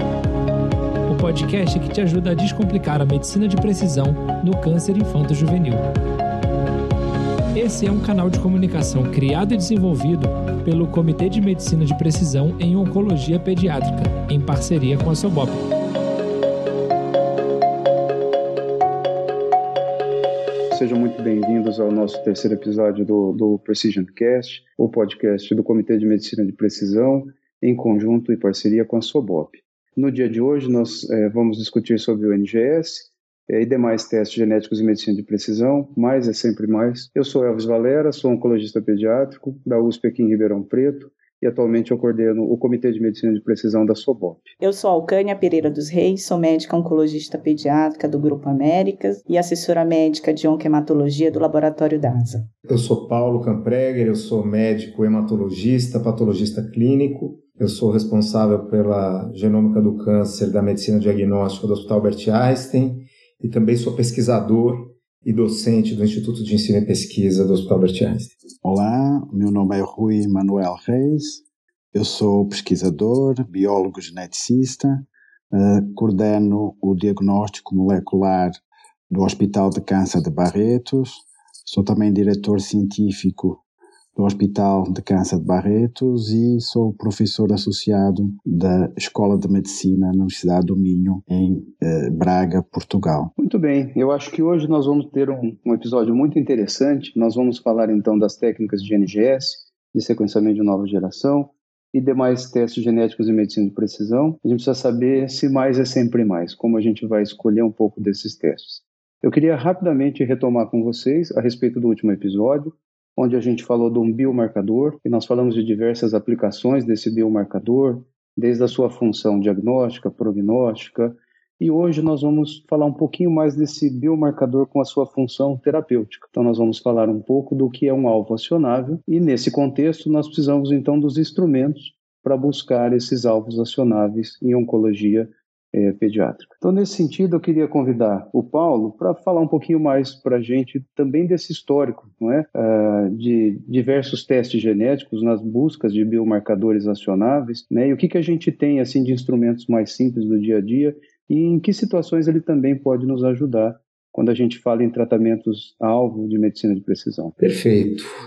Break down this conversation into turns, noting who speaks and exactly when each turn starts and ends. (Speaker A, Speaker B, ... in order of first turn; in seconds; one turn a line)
Speaker A: 1.1-5.8
Speaker A: 7.5-15.6
Speaker B: 20.7-44.5
Speaker C: 44.6-52.5
Speaker D: 52.6-68.3
Speaker E: 68.6-83.6
Speaker E: 84.2-93.3
Speaker B: 93.4-157.3
Speaker D: 157.4-158.1